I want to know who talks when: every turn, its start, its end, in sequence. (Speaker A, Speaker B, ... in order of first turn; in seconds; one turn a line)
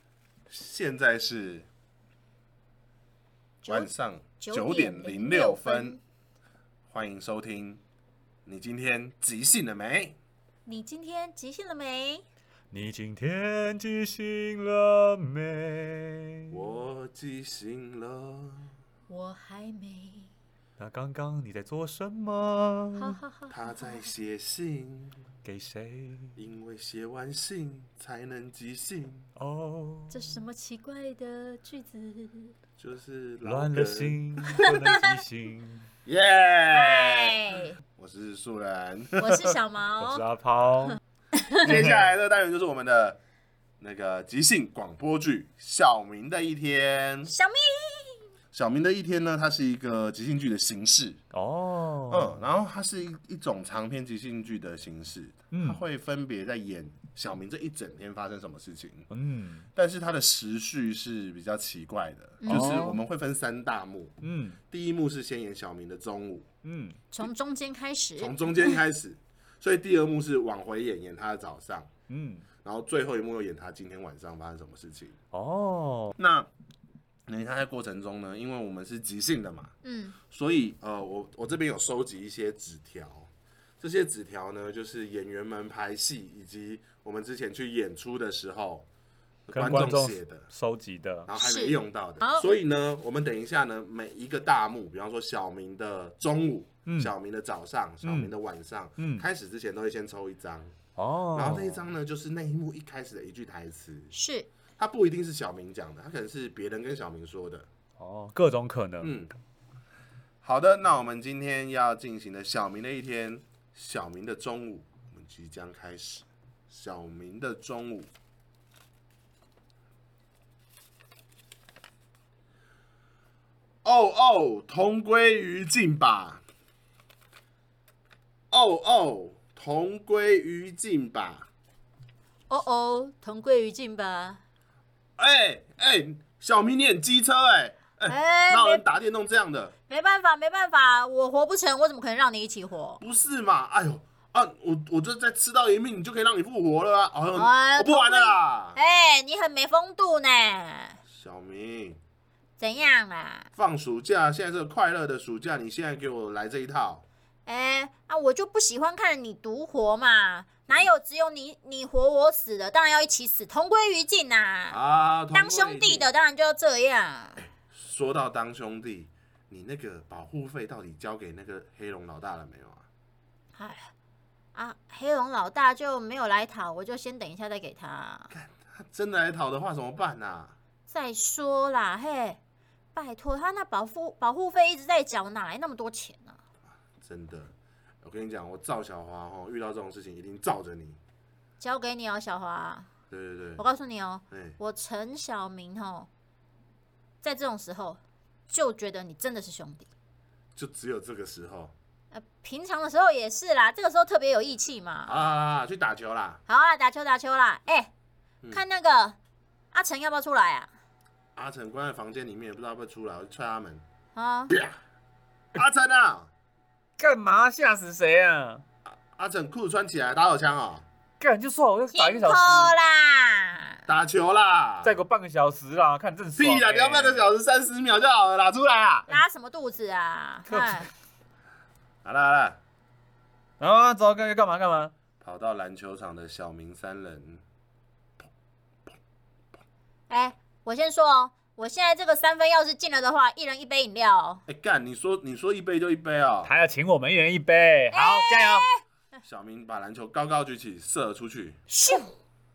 Speaker A: 0.5-1.7
Speaker B: 3.6-3.9
Speaker A: 3.7-6.0
Speaker B: 4.4-6.0
Speaker A: 6.9-7.8
Speaker A: 8.5-10.2
Speaker B: 10.7-12.2
Speaker C: 12.7-16.6
Speaker A: 16.5-18.7
Speaker B: 19.1-20.3
Speaker C: 20.8-23.2
Speaker B: 23.0-24.1
Speaker A: 23.5-25.2
Speaker C: 25.4-26.4
Speaker A: 26.4-29.3
Speaker C: 29.4-30.4
Speaker B: 30.1-32.5
Speaker A: 32.8-34.8
Speaker C: 33.5-35.9
Speaker B: 34.6-35.1
Speaker A: 36.1-37.4
Speaker B: 36.7-37.8
Speaker A: 38.0-39.5
Speaker B: 39.2-40.2
Speaker C: 40.0-41.0
Speaker B: 41.4-41.7
Speaker A: 41.6-43.2
Speaker C: 41.7-42.0
Speaker A: 43.8-47.3
Speaker B: 47.3-48.3
Speaker A: 48.5-51.2
Speaker C: 51.3-52.4
Speaker A: 52.1-59.1
Speaker C: 55.5-55.8
Speaker C: 59.1-59.7
Speaker A: 59.8-64.2
Speaker B: 62.4-62.9
Speaker C: 62.5-63.0
Speaker C: 64.2-64.6
Speaker A: 64.7-66.5
Speaker C: 66.6-67.0
Speaker B: 67.1-68.7
Speaker A: 68.2-71.9
Speaker C: 72.1-72.5
Speaker A: 72.6-75.2
Speaker C: 75.3-76.2
Speaker A: 76.2-76.5
Speaker A: 77.3-88.9
Speaker B: 79.8-80.2
Speaker A: 89.5-90.5
Speaker C: 89.5-91.3
Speaker A: 91.3-100.8
Speaker B: 91.4-92.5
Speaker C: 96.9-97.1
Speaker C: 98.0-98.3
Speaker C: 99.0-99.2
Speaker C: 101.0-101.8
Speaker A: 101.3-104.1
Speaker B: 104.1-104.5
Speaker A: 104.8-107.7
Speaker C: 108.0-109.1
Speaker A: 109.0-109.3
Speaker A: 110.4-118.1
Speaker A: 123.8-126.4
Speaker A: 128.5-131.5
Speaker B: 132.5-134.4
Speaker A: 135.2-139.7
Speaker B: 138.1-138.8
Speaker B: 139.9-143.0
Speaker A: 143.0-148.8
Speaker B: 147.4-151.0
Speaker A: 151.1-152.0
Speaker B: 152.6-153.5
Speaker A: 153.6-157.1
Speaker B: 157.5-164.8
Speaker A: 164.7-166.1
Speaker B: 165.3-167.4
Speaker A: 167.4-172.9
Speaker B: 173.6-173.9
Speaker B: 174.6-178.3
Speaker A: 178.3-180.6
Speaker B: 180.9-182.4
Speaker B: 182.9-186.4
Speaker A: 187.0-191.0
Speaker B: 191.6-192.9
Speaker A: 193.1-193.7
Speaker B: 193.6-196.1
Speaker A: 194.3-194.6
Speaker B: 197.2-199.9
Speaker A: 200.6-201.7
Speaker B: 202.1-205.2
Speaker A: 205.1-206.4
Speaker B: 206.5-207.9
Speaker B: 208.5-209.2
Speaker B: 209.7-210.7
Speaker A: 211.4-213.8
Speaker B: 214.2-214.5
Speaker A: 214.5-214.8
Speaker A: 215.5-216.3
Speaker C: 217.0-218.6
Speaker A: 218.9-220.9
Speaker C: 221.2-222.7
Speaker B: 221.9-223.8
Speaker A: 223.9-225.0
Speaker C: 224.8-227.3
Speaker A: 226.4-229.1
Speaker B: 229.1-230.9
Speaker C: 230.5-230.9
Speaker A: 232.0-232.6
Speaker C: 233.6-234.9
Speaker A: 235.2-237.4
Speaker B: 240.1-244.4
Speaker A: 244.5-246.5
Speaker C: 246.4-248.7
Speaker B: 247.9-248.8
Speaker A: 249.2-251.7
Speaker B: 251.7-252.1